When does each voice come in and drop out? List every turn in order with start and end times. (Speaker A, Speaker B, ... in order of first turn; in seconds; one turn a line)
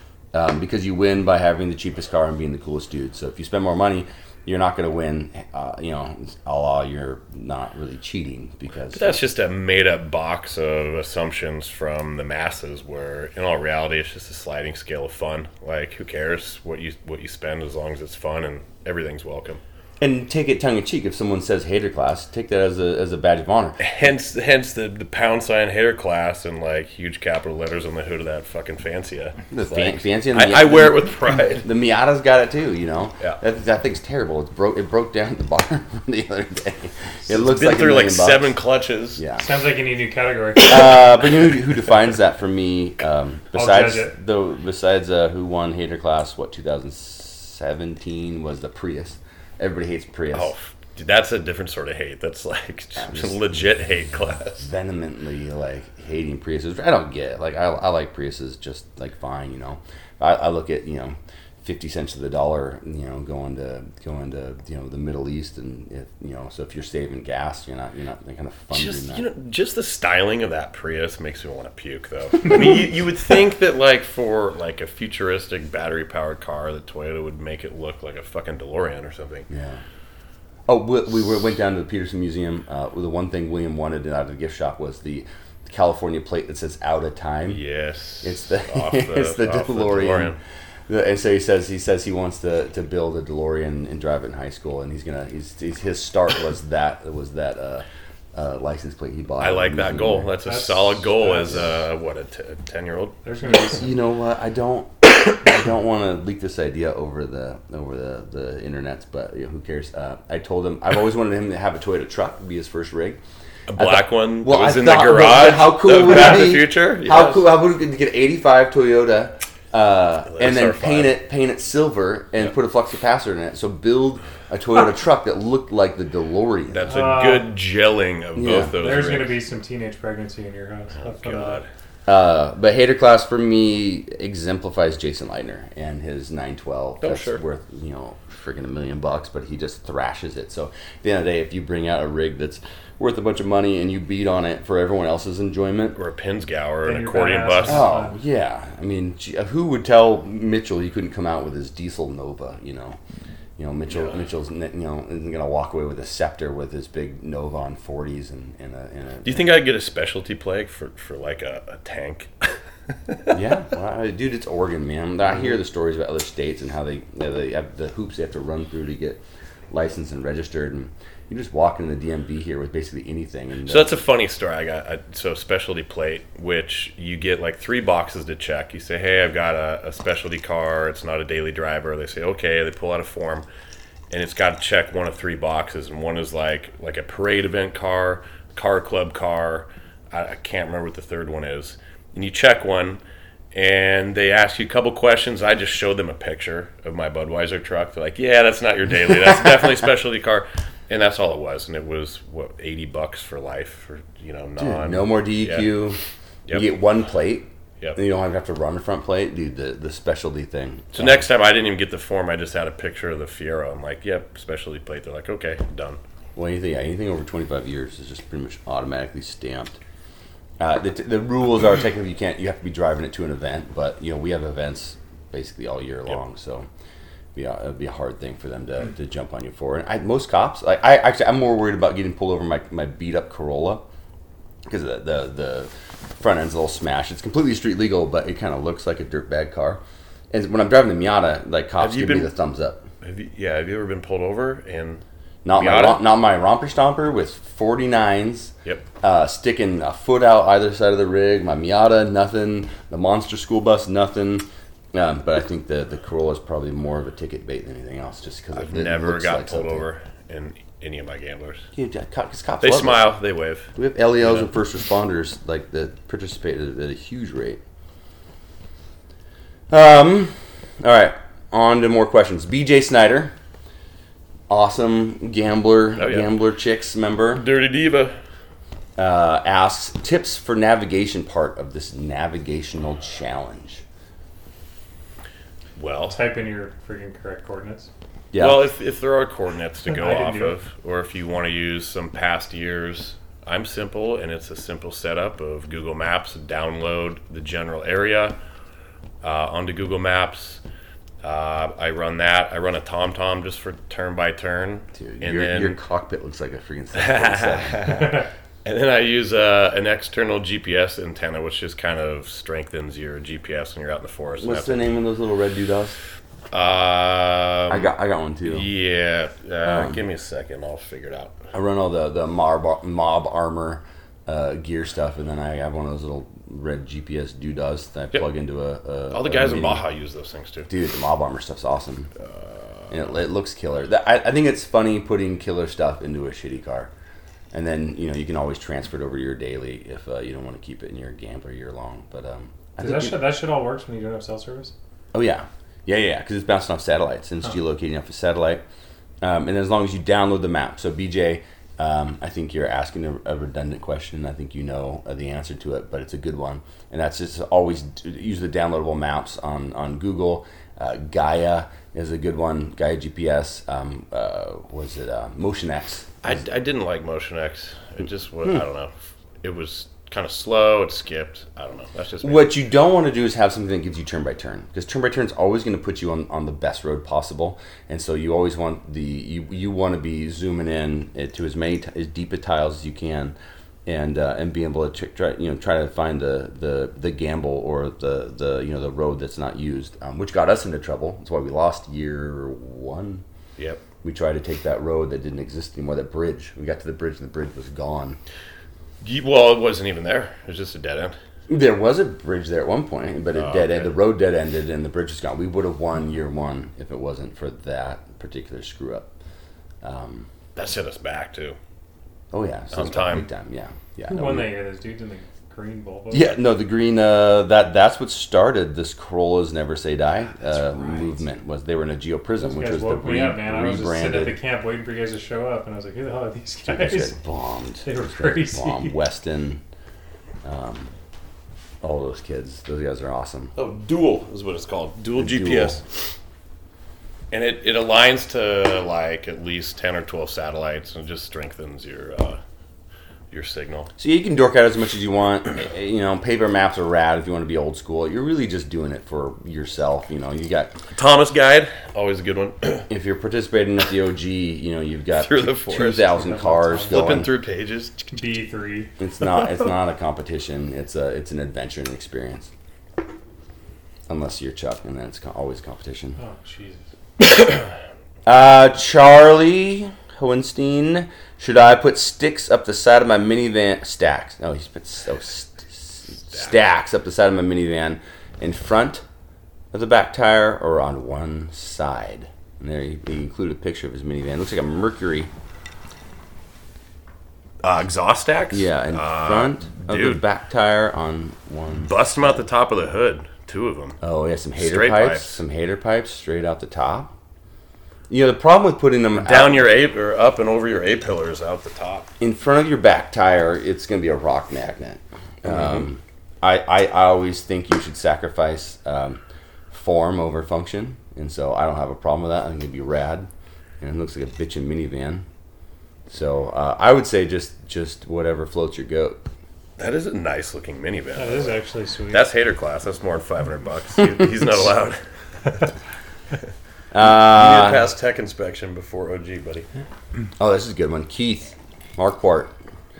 Speaker A: 0.3-9.2
Speaker B: 8.9-19.6
Speaker A: 20.0-23.8
Speaker B: 23.8-31.6
Speaker A: 29.5-38.5
Speaker B: 37.3-39.2
Speaker A: 39.1-39.4
Speaker C: 39.4-41.2
Speaker A: 40.6-50.5
Speaker C: 43.5-44.1
Speaker B: 50.3-54.6
Speaker A: 53.0-53.4
Speaker A: 54.6-69.2
Speaker B: 68.7-79.5
Speaker A: 79.5-79.8
Speaker A: 80.7-87.6
Speaker B: 87.5-90.4
Speaker A: 88.2-90.4
Speaker A: 90.9-100.3
Speaker B: 99.4-103.2
Speaker C: 100.4-101.7
Speaker C: 103.2-103.9
Speaker A: 103.7-113.2
Speaker B: 113.7-117.5
Speaker A: 113.8-126.9
Speaker B: 120.3-121.1
Speaker B: 126.7-129.4
Speaker C: 126.9-127.5
Speaker A: 128.3-128.7
Speaker C: 128.8-131.6
Speaker B: 130.9-131.7
Speaker A: 132.1-146.0
Speaker B: 137.0-137.4
Speaker B: 145.9-147.9
Speaker C: 146.8-148.1
Speaker A: 147.6-153.0
Speaker A: 153.6-159.5
Speaker B: 153.9-154.2
Speaker B: 159.2-163.2
Speaker A: 163.3-174.0
Speaker B: 173.7-183.4
Speaker B: 184.1-193.0
Speaker B: 193.5-205.7
Speaker A: 204.6-206.0
Speaker A: 206.5-211.2
Speaker B: 210.9-216.0
Speaker A: 216.3-219.8
Speaker A: 220.6-226.7
Speaker A: 227.3-233.8
Speaker A: 234.7-242.8
Speaker B: 241.8-242.3
Speaker B: 243.0-246.0
Speaker A: 245.4-259.9
Speaker B: 258.5-261.6
Speaker A: 261.8-263.1
Speaker B: 262.6-264.5
Speaker A: 263.8-267.6
Speaker A: 269.7-273.3
Speaker A: 274.5-277.4
Speaker B: 276.0-276.3
Speaker B: 277.3-278.2
Speaker A: 279.0-283.8
Speaker B: 285.8-286.2
Speaker C: 286.1-287.9
Speaker A: 288.3-288.6
Speaker B: 288.4-298.4
Speaker C: 289.9-290.6
Speaker B: 299.2-300.6
Speaker B: 301.2-305.8
Speaker A: 304.9-308.1
Speaker B: 306.9-315.0
Speaker A: 314.4-316.0
Speaker B: 316.5-317.9
Speaker A: 317.7-318.7
Speaker B: 318.4-321.3
Speaker A: 319.6-320.0
Speaker A: 321.5-329.8
Speaker B: 329.1-330.7
Speaker A: 330.7-332.1
Speaker B: 332.3-332.9
Speaker A: 332.9-336.9
Speaker A: 337.5-343.3
Speaker C: 342.8-344.7
Speaker A: 345.1-348.6
Speaker A: 349.2-366.2
Speaker B: 366.2-372.5
Speaker A: 372.2-383.3
Speaker A: 383.9-393.2
Speaker B: 393.6-393.8
Speaker A: 394.0-398.2
Speaker B: 399.0-401.1
Speaker A: 401.5-409.1
Speaker B: 403.3-403.9
Speaker A: 409.8-410.3
Speaker B: 410.5-411.6
Speaker A: 412.3-414.5
Speaker B: 412.7-413.3
Speaker C: 414.1-416.4
Speaker A: 416.1-424.4
Speaker C: 422.4-427.1
Speaker A: 426.6-429.6
Speaker C: 427.8-428.9
Speaker A: 430.4-430.9
Speaker A: 431.8-433.5
Speaker B: 433.6-435.8
Speaker A: 435.2-435.8
Speaker B: 437.3-442.4
Speaker B: 443.3-443.9
Speaker A: 444.0-450.7
Speaker B: 450.9-452.9
Speaker A: 452.9-457.3
Speaker B: 455.1-456.1
Speaker C: 456.2-457.0
Speaker B: 456.9-458.1
Speaker C: 458.1-458.9
Speaker A: 459.0-462.5
Speaker A: 464.1-466.2
Speaker C: 466.2-466.8
Speaker A: 468.2-479.0
Speaker A: 479.7-485.3
Speaker B: 487.6-490.2
Speaker A: 488.5-492.4
Speaker B: 491.8-494.0
Speaker A: 494.0-497.1
Speaker B: 494.6-495.4
Speaker A: 498.1-499.7
Speaker B: 499.2-502.1
Speaker A: 502.2-513.3
Speaker A: 513.8-515.2
Speaker A: 516.1-519.2
Speaker B: 519.8-525.7
Speaker C: 521.1-522.3
Speaker A: 526.9-527.9
Speaker B: 527.0-529.7
Speaker A: 530.4-532.5